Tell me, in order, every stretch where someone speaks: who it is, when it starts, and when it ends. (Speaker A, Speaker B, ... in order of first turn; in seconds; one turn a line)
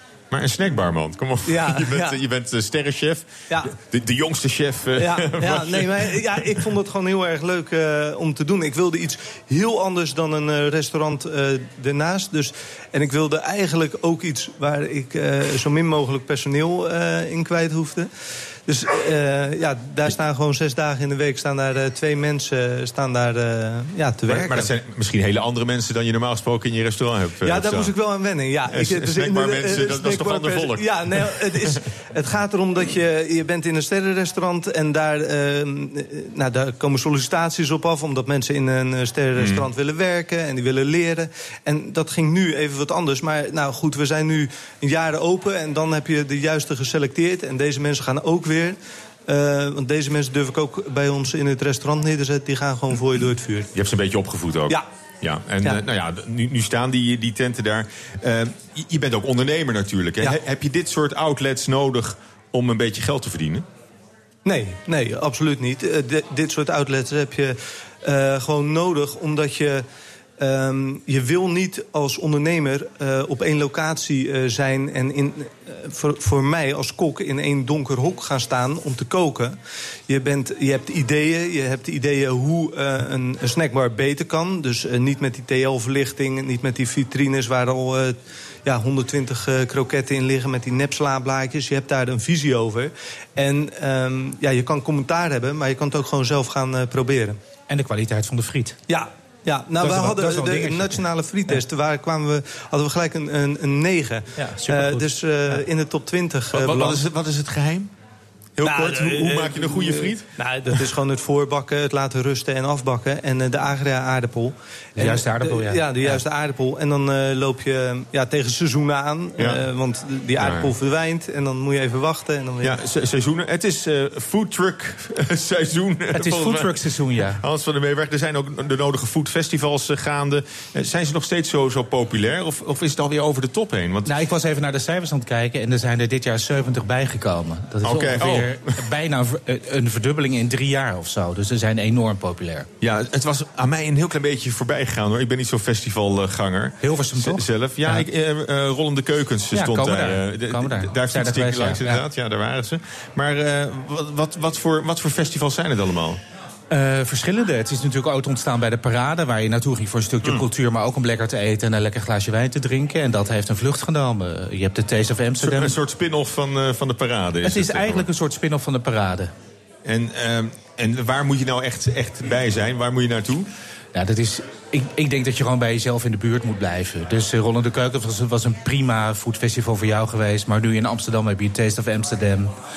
Speaker A: 0.3-6.6
Speaker B: 1.4-2.2
Speaker B: 5.0-18.1
Speaker B: 18.7-24.7
Speaker A: 24.3-27.9
Speaker B: 27.4-53.7
Speaker A: 28.7-31.8
Speaker A: 39.4-39.7
Speaker A: 53.7-63.6
Speaker B: 64.4-69.8
Speaker B: 70.4-79.5
Speaker B: 80.1-97.4
Speaker C: 97.7-98.8
Speaker B: 98.9-107.0
Speaker C: 99.8-101.0
Speaker C: 104.4-105.0
Speaker A: 106.5-107.9
Speaker A: 108.5-110.8
Speaker B: 108.6-122.8
Speaker C: 115.0-116.2
Speaker A: 119.4-119.6
Speaker A: 120.4-120.7
Speaker A: 122.6-126.7
Speaker C: 126.1-127.4
Speaker A: 127.4-134.1
Speaker C: 134.1-142.7
Speaker A: 137.8-138.7
Speaker A: 142.8-156.2
Speaker C: 146.8-148.0
Speaker C: 149.5-152.0
Speaker C: 156.7-165.8
Speaker A: 165.4-168.1
Speaker C: 167.4-169.3
Speaker A: 169.8-173.5
Speaker C: 173.9-182.5